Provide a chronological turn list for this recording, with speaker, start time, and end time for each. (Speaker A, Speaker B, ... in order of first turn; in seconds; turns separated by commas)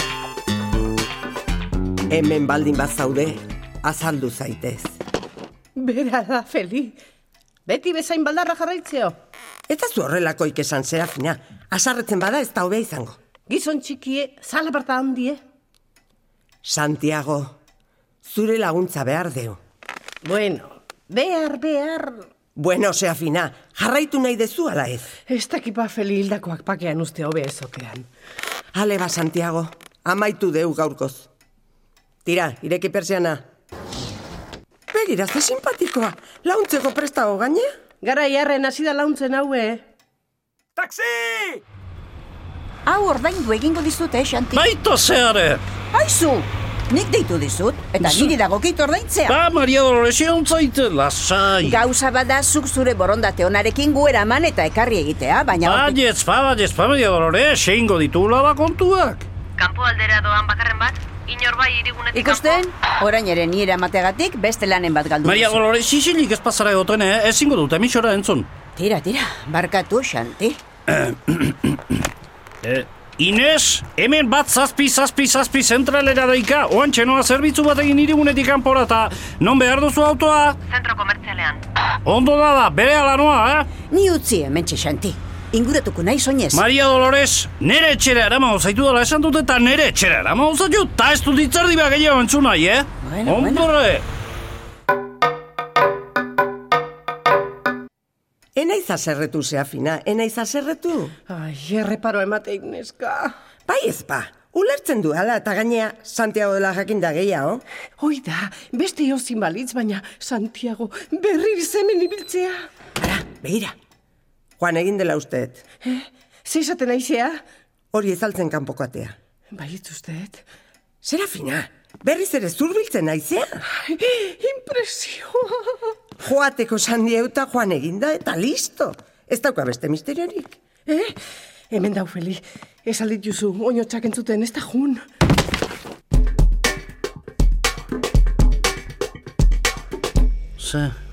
Speaker A: 2.1-5.0, Speaker B: 5.8-7.0, Speaker B: 7.7-9.2, Speaker A: 9.7-13.2, Speaker B: 13.5-15.4, Speaker A: 16.6-17.6, Speaker A: 18.2-19.6, Speaker B: 20.2-22.3, Speaker A: 22.6-25.1, Speaker B: 25.3-28.1, Speaker A: 28.7-31.3, Speaker A: 32.2-33.4, Speaker A: 34.9-37.7, Speaker B: 38.0-39.9, Speaker C: 42.9-44.7, Speaker D: 44.5-45.6, Speaker C: 45.9-49.4, Speaker D: 48.0-48.3, Speaker D: 49.3-51.8, Speaker C: 51.6-56.0, Speaker D: 55.6-59.3, Speaker E: 59.6-62.6, Speaker C: 62.1-65.6, Speaker D: 65.2-68.5, Speaker C: 68.8-70.6, Speaker D: 70.9-72.0, Speaker D: 72.6-80.6, Speaker E: 80.7-81.6, Speaker D: 82.0-83.7, Speaker C: 83.9-86.6, Speaker D: 86.5-94.0, Speaker C: 93.0-93.7, Speaker A: 98.6-101.1, Speaker B: 101.3-103.3, Speaker A: 103.7-107.6, Speaker B: 108.0-112.6, Speaker A: 113.0-113.8, Speaker A: 114.6-115.6, Speaker B: 115.8-117.4, Speaker A: 117.9-119.2, Speaker B: 119.5-120.4, Speaker A: 121.0-123.6, Speaker B: 123.7-125.8, Speaker A: 126.2-130.5, Speaker B: 130.9-131.2, Speaker B: 131.7-135.0, Speaker D: 140.6-140.9